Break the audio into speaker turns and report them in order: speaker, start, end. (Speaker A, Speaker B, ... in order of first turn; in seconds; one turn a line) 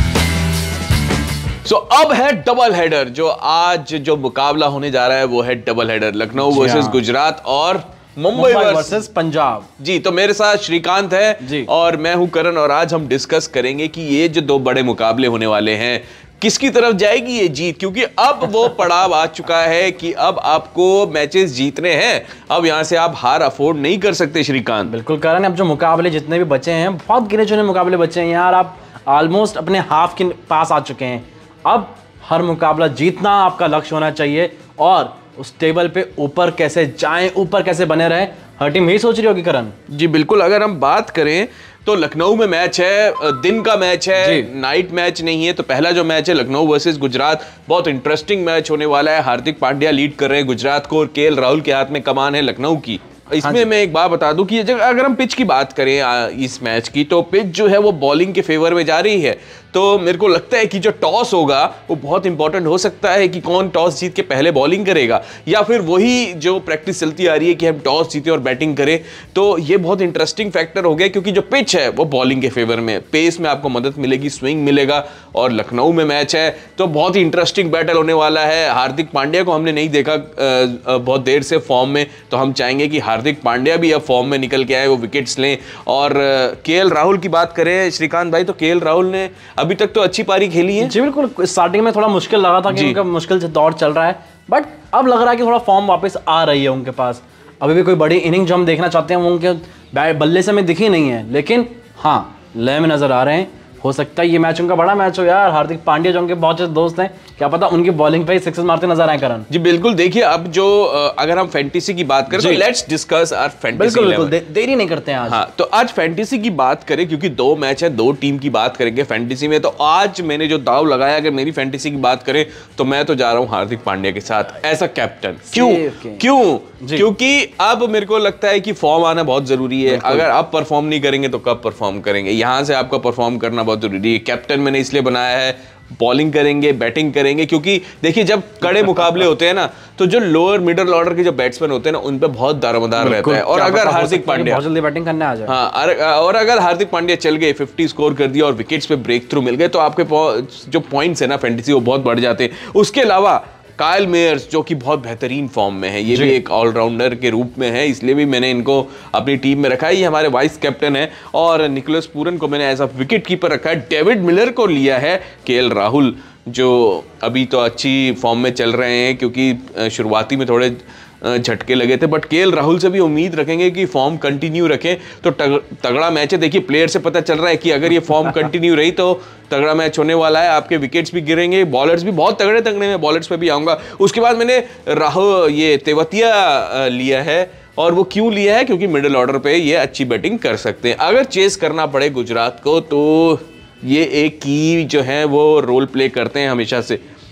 Speaker A: 1.6-9.0
Speaker B: 6.4-7.0
Speaker B: 8.3-9.7
Speaker A: 9.8-24.9
Speaker B: 11.4-11.7
Speaker B: 24.9-39.7
Speaker A: 39.9-90.9
Speaker B: 44.1-44.5
Speaker B: 90.8-109.5
Speaker A: 92.7-93.0
Speaker A: 109.5-114.3
Speaker B: 112.3-112.6
Speaker B: 113.8-115.4
Speaker A: 115.3-144.6
Speaker B: 125.5-126.2
Speaker B: 126.8-127.0
Speaker B: 129.9-130.3
Speaker B: 143.0-145.5
Speaker A: 145.5-197.0
Speaker B: 156.1-156.4